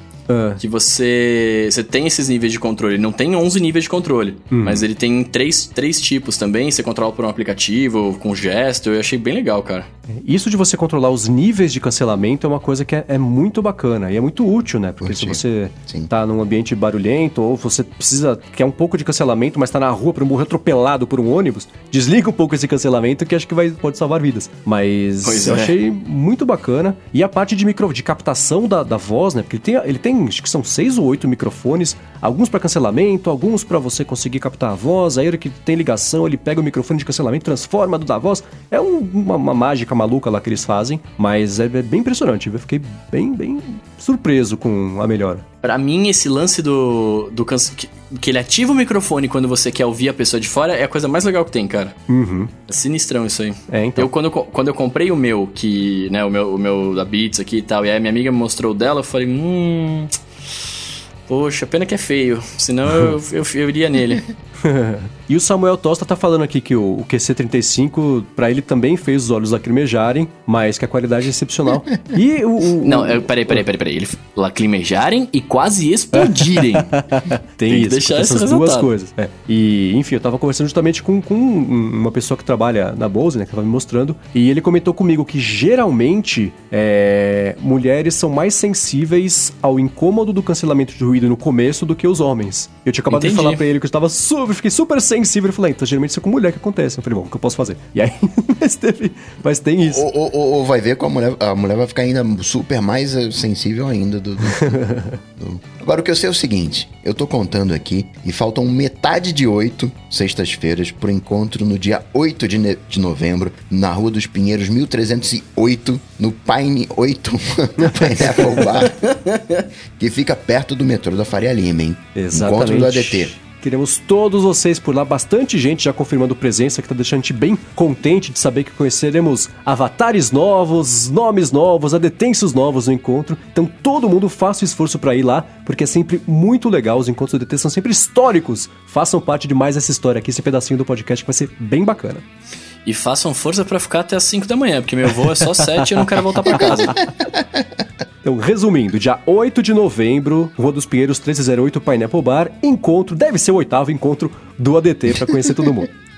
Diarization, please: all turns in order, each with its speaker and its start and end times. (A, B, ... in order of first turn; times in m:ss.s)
0:00.3-0:00.6 A
0:00.6-0:09.9 B
0:04.5-0:04.8 A
0:10.1-0:45.4 A
0:15.0-0:16.1 C
0:25.2-0:25.7 B
0:45.6-0:52.0 B
0:52.1-0:52.5 A
0:52.7-1:00.1 B
0:53.7-0:54.1 A
1:01.3-1:04.2 B
1:04.6-1:13.6 A
1:12.8-1:17.0 B
1:16.1-1:40.0 A
1:17.7-1:18.9 B
1:33.1-1:33.6 B
1:39.8-1:44.8 C
1:44.6-1:45.2 A
1:45.4-1:59.0 C
1:59.0-1:59.6 B
2:00.0-2:03.3 C
2:02.1-2:22.2 A
2:22.8-2:27.0 B
2:28.2-2:35.9 A